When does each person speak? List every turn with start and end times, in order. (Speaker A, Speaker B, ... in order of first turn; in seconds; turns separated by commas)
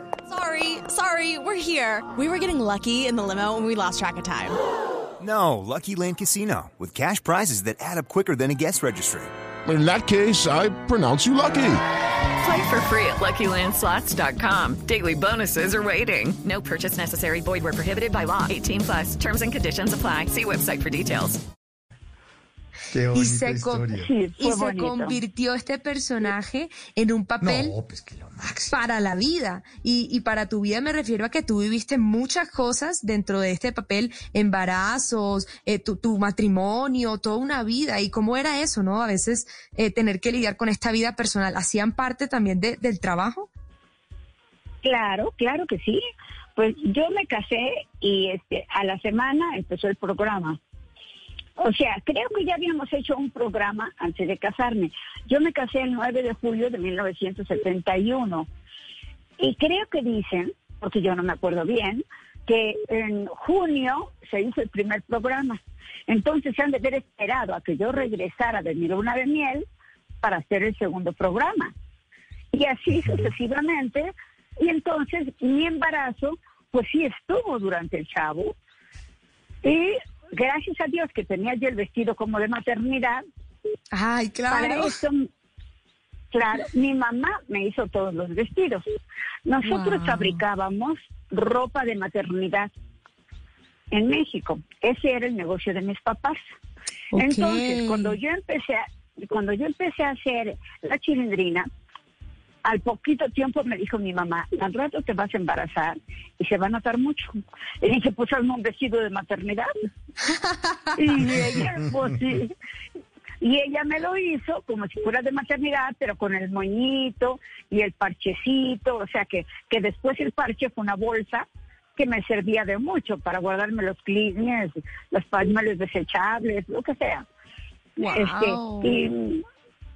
Speaker A: 0.3-4.6, Speaker B: 5.2-9.3, Speaker C: 9.7-11.8, Speaker D: 12.4-21.4, Speaker E: 22.9-24.1, Speaker F: 23.1-27.7, Speaker G: 24.0-25.2, Speaker E: 27.4-28.8, Speaker F: 28.7-43.5, Speaker G: 44.8-46.0, Speaker G: 46.6-50.6, Speaker G: 51.6-58.5, Speaker G: 59.4-69.7, Speaker G: 70.2-71.7, Speaker G: 72.5-78.5, Speaker G: 79.6-83.2, Speaker F: 83.9-85.0, Speaker G: 84.5-85.2, Speaker G: 86.3-88.8, Speaker G: 89.4-92.7, Speaker F: 89.6-90.4, Speaker G: 93.9-96.4, Speaker F: 97.1-98.2, Speaker G: 97.2-101.7, Speaker G: 102.6-109.7, Speaker G: 110.9-112.5, Speaker G: 113.4-127.2, Speaker F: 128.0-129.0, Speaker G: 128.0-129.4